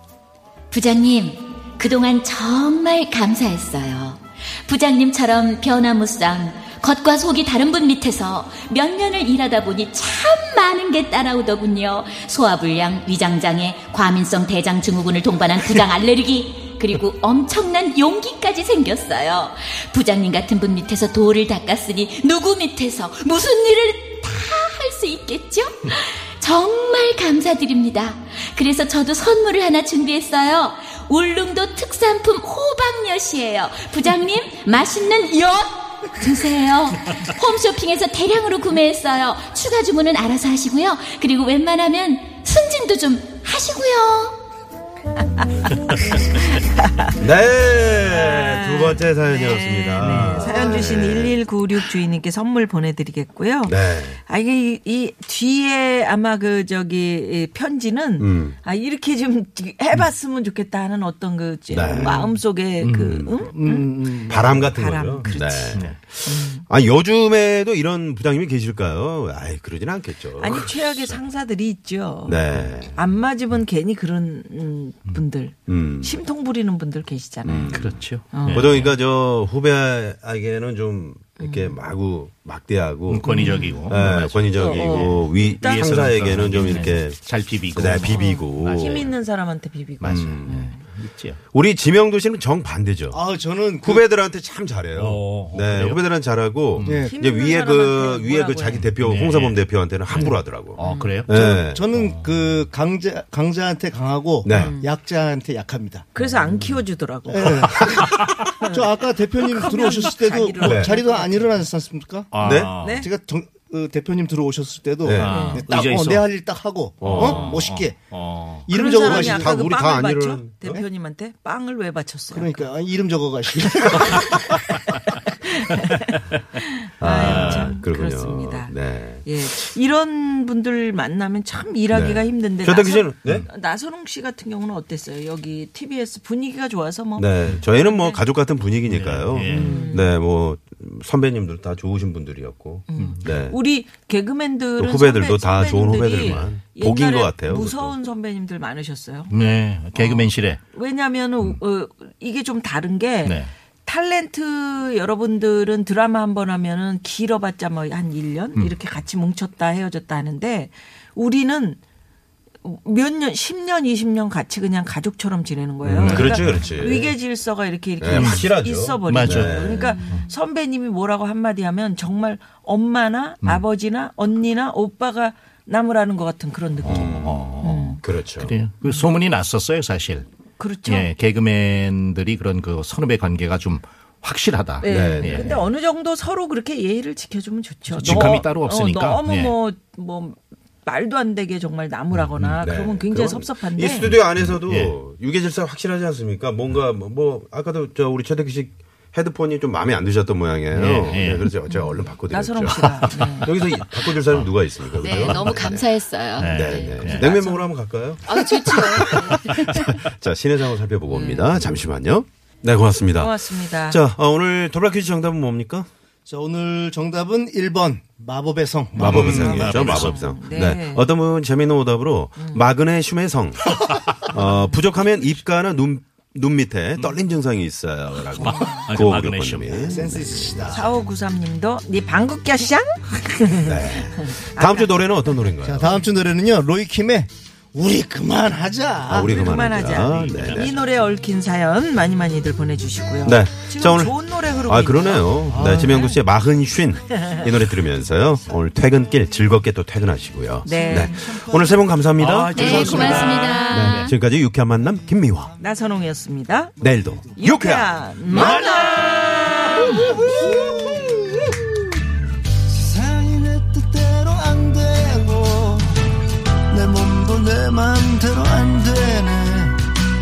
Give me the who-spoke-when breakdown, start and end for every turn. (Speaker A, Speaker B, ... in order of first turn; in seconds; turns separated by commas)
Speaker A: 0.7-44.3, Speaker B: 46.1-47.1, Speaker C: 47.2-51.4, Speaker B: 48.0-66.7, Speaker D: 50.0-50.5, Speaker C: 53.6-54.2, Speaker C: 58.2-58.5, Speaker C: 61.7-62.3, Speaker D: 62.8-63.3, Speaker E: 63.5-64.7, Speaker C: 64.3-71.2, Speaker B: 70.4-72.4, Speaker C: 72.2-73.0, Speaker B: 72.9-77.8, Speaker C: 75.7-76.2, Speaker C: 77.4-83.3, Speaker D: 77.7-78.9, Speaker B: 78.3-78.7, Speaker D: 83.1-89.0, Speaker B: 83.2-83.9, Speaker C: 83.9-87.2, Speaker B: 84.5-86.8, Speaker C: 87.7-89.1, Speaker B: 87.9-90.7, Speaker D: 90.0-91.4, Speaker C: 90.0-90.7, Speaker C: 91.5-93.2, Speaker E: 93.1-94.0, Speaker C: 93.8-101.8, Speaker D: 94.9-96.0, Speaker D: 96.7-97.0, Speaker E: 96.8-97.2, Speaker B: 97.0-98.8, Speaker D: 98.8-101.3, Speaker B: 100.8-101.2, Speaker E: 101.3-106.1, Speaker C: 104.4-104.7, Speaker B: 104.5-104.9, Speaker B: 106.1-108.8, Speaker E: 107.3-118.0, Speaker B: 109.5-111.5, Speaker C: 110.6-110.9, Speaker D: 112.3-113.1, Speaker C: 112.4-112.7, Speaker B: 112.8-113.1, Speaker C: 115.0-115.5, Speaker D: 115.2-116.3, Speaker B: 115.3-115.6, Speaker C: 117.0-117.6, Speaker D: 117.0-119.2, Speaker E: 118.7-119.5, Speaker B: 118.7-122.6, Speaker C: 119.2-120.8, Speaker E: 122.3-124.5, Speaker B: 125.1-128.7, Speaker C: 127.0-129.2, Speaker D: 127.1-127.7, Speaker B: 129.2-138.2, Speaker C: 131.9-133.5, Speaker C: 137.2-143.6, Speaker D: 138.8-139.8, Speaker B: 139.5-140.1, Speaker B: 142.9-149.3, Speaker C: 144.8-147.9, Speaker D: 149.3-150.6, Speaker B: 149.9-161.8, Speaker D: 153.2-153.5, Speaker B: 162.6-178.0, Speaker C: 165.8-167.2, Speaker D: 165.9-166.7, Speaker C: 168.0-170.0, Speaker D: 168.1-168.5, Speaker D: 169.1-170.2, Speaker D: 176.8-180.2, Speaker C: 176.8-178.5, Speaker B: 180.6-181.1, Speaker D: 180.8-185.6, Speaker B: 184.8-194.1, Speaker C: 184.8-185.5, Speaker D: 187.9-189.5, Speaker C: 188.0-188.4, Speaker D: 192.1-192.6, Speaker C: 192.6-205.9, Speaker D: 194.1-194.9, Speaker D: 200.7-201.5, Speaker B: 202.1-203.5, Speaker A: 204.9-207.5, Speaker D: 206.4-207.3, Speaker C: 206.5-213.3, Speaker B: 207.1-207.6, Speaker A: 208.2-209.9, Speaker B: 211.1-211.7, Speaker B: 213.1-214.0, Speaker C: 213.9-215.9, Speaker E: 216.2-219.5, Speaker C: 218.9-230.8, Speaker D: 219.0-220.2, Speaker B: 219.2-221.1, Speaker B: 222.4-222.7, Speaker D: 228.3-229.9, Speaker B: 228.4-228.9, Speaker E: 229.9-230.9, Speaker B: 230.7-234.9, Speaker C: 233.6-235.9, Speaker E: 235.6-239.3, Speaker C: 239.1-240.7, Speaker B: 239.2-246.1, Speaker D: 240.0-240.7, Speaker C: 243.2-255.5, Speaker E: 245.5-246.0, Speaker B: 250.6-251.3, Speaker E: 250.7-251.9, Speaker D: 252.2-254.1, Speaker A: 252.5-254.1, Speaker E: 252.6-253.4, Speaker B: 255.6-256.7, Speaker C: 256.8-258.6, Speaker E: 256.8-257.1, Speaker B: 257.4-260.1, Speaker D: 258.3-260.4, Speaker A: 258.5-258.9, Speaker E: 259.7-261.5, Speaker E: 262.6-269.8